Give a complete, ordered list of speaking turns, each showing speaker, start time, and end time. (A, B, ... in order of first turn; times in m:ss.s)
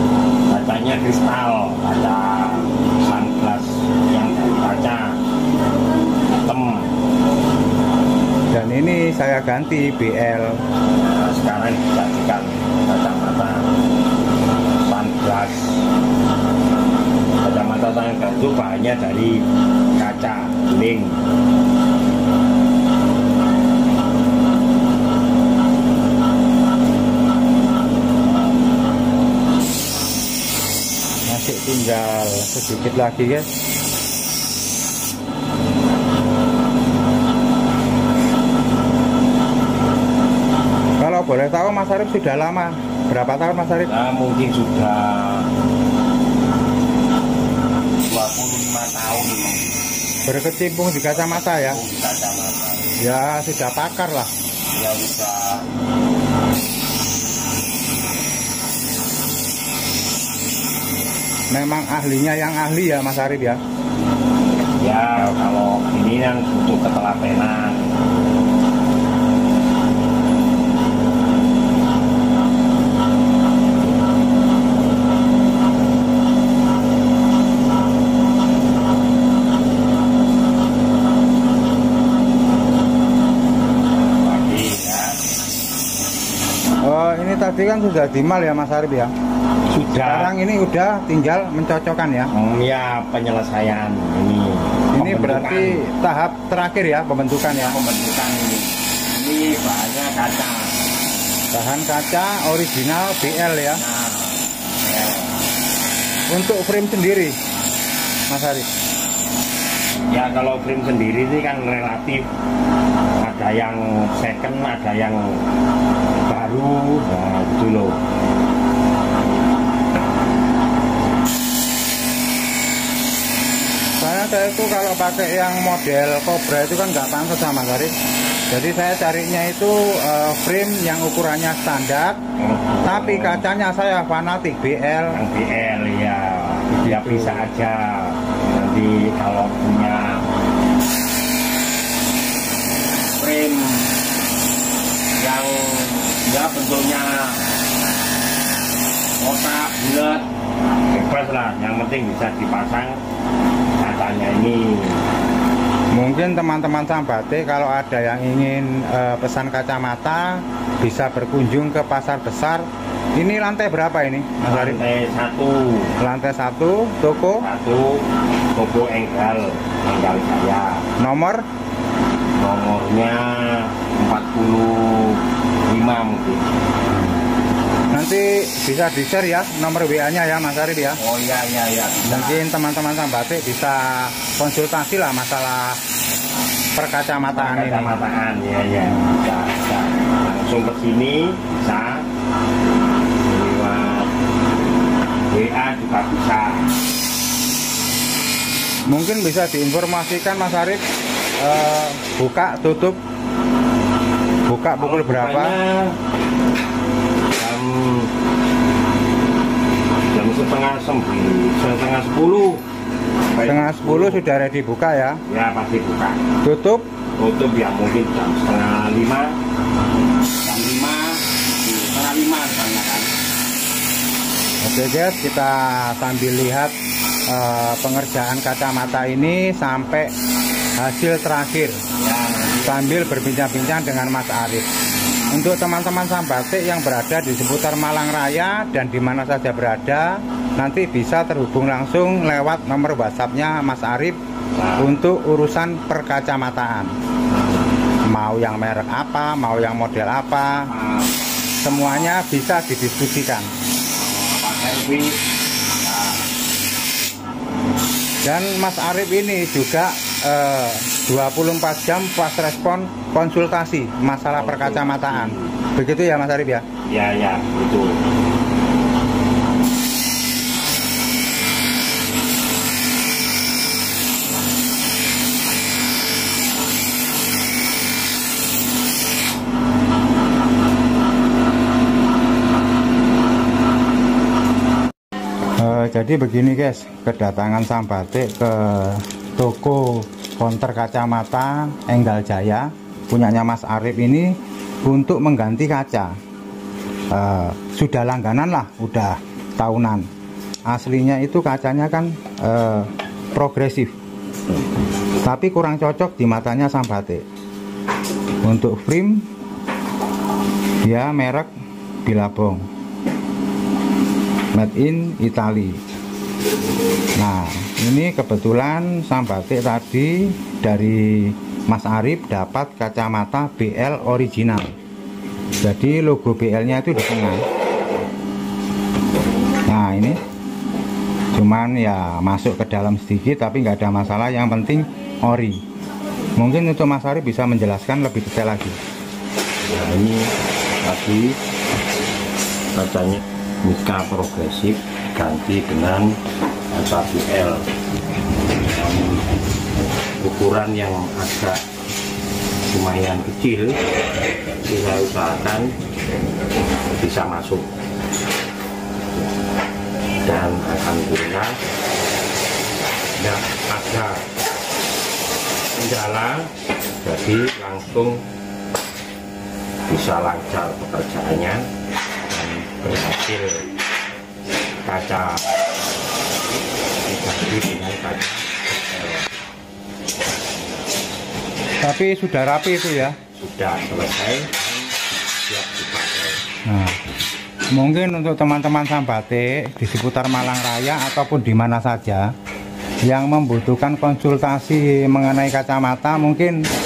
0:00.5-0:05.2 A
0:06.3-0:06.9 A
0:08.5-0:10.5 B
0:11.0-0:13.7 A
0:14.8-0:15.7 A
0:17.4-0:19.4 A
0:20.0-0:21.2 A
0:31.3-0:33.5 B
0:41.0-0:43.9 B
0:43.8-0:45.5 A
0:48.0-0:49.6 A
0:50.2-0:51.8 B
0:51.1-0:53.0 A
0:53.0-0:54.3 B
0:54.7-0:55.6 A
1:01.5-1:03.6 B
1:04.8-1:07.9 A
1:24.1-1:25.2 A
1:26.8-1:29.1 B
1:29.7-1:30.3 A
1:29.9-1:32.3 B
1:32.3-1:35.8 A
1:34.9-1:37.8 B
1:37.5-1:40.7 A
1:41.5-1:43.8 B
1:43.2-1:45.4 A
1:46.3-1:47.4 B
1:48.3-1:48.7 B
1:50.1-1:52.3 A
1:53.2-1:55.4 A
1:56.2-1:58.0 A
2:04.0-2:07.9 B
2:08.5-2:12.2 B
2:12.4-2:13.4 A
2:12.8-2:15.2 B
2:15.1-2:20.2 A
2:16.7-2:17.4 B
2:23.2-2:23.9 A
2:25.2-2:27.4 A
2:29.2-2:30.2 A
2:30.9-2:33.0 A
2:33.8-2:35.0 A
2:36.0-2:44.8 B
2:44.5-2:45.9 A
2:46.0-2:47.4 B
2:47.4-2:50.8 A
2:51.0-2:51.4 B
2:52.4-2:56.4 A
2:57.9-3:01.0 B
3:01.0-3:02.4 A
3:02.1-3:05.8 B
3:06.8-3:08.0 B
3:07.3-3:12.0 A
3:13.3-3:14.1 A
3:15.3-3:16.7 A
3:18.9-3:20.8 B
3:21.4-3:23.0 B
3:24.5-3:25.6 B
3:24.8-3:26.0 A
3:27.4-3:28.1 A
3:30.1-3:32.6 A
3:33.3-3:34.2 A
3:33.4-3:35.2 B
3:35.2-3:36.2 A
3:36.4-3:36.8 B
3:37.2-3:39.3 A
3:40.4-3:43.1 A
3:44.6-3:46.7 B
3:47.3-3:50.1 B
3:50.8-3:51.8 B
3:52.0-3:53.8 A
3:52.6-3:54.6 B
3:55.3-4:04.2 B
4:04.6-4:05.0 A
4:04.8-4:06.9 B
4:08.1-4:10.7 B
4:10.7-4:11.1 A
4:11.6-4:13.5 B
4:13.9-4:15.2 A
4:15.8-4:16.3 A
4:18.2-4:26.6 B
4:24.3-4:25.5 A
4:26.8-4:28.0 A
4:45.6-4:54.3 B
4:54.8-4:56.2 B
4:57.1-5:00.0 B
5:00.7-5:03.9 B
5:05.2-5:07.2 B
5:08.4-5:09.3 B
5:10.8-5:11.5 B
5:12.0-5:12.6 B
5:14.5-5:15.8 B
5:17.2-5:24.7 B
5:25.6-5:27.4 B
5:29.7-5:30.2 B
5:31.3-5:35.6 B
5:36.4-5:38.8 B
5:39.6-5:40.3 A
5:40.8-5:41.4 A
5:42.7-5:46.2 A
5:46.7-5:47.6 A
5:48.7-5:49.2 A
5:50.2-5:51.6 A
5:52.7-5:53.8 A
5:54.6-5:55.7 A
5:56.9-5:57.7 A
6:00.2-6:01.6 A
6:03.2-6:04.2 A
6:05.7-6:06.5 A
6:07.0-6:08.2 A
6:09.9-6:11.6 A
6:12.3-6:13.7 A
6:14.8-6:15.5 A
6:17.0-6:19.3 A
6:21.8-6:23.2 B
6:23.4-6:26.4 A
6:26.7-6:27.0 B
6:27.8-6:32.3 B
6:33.1-6:36.6 B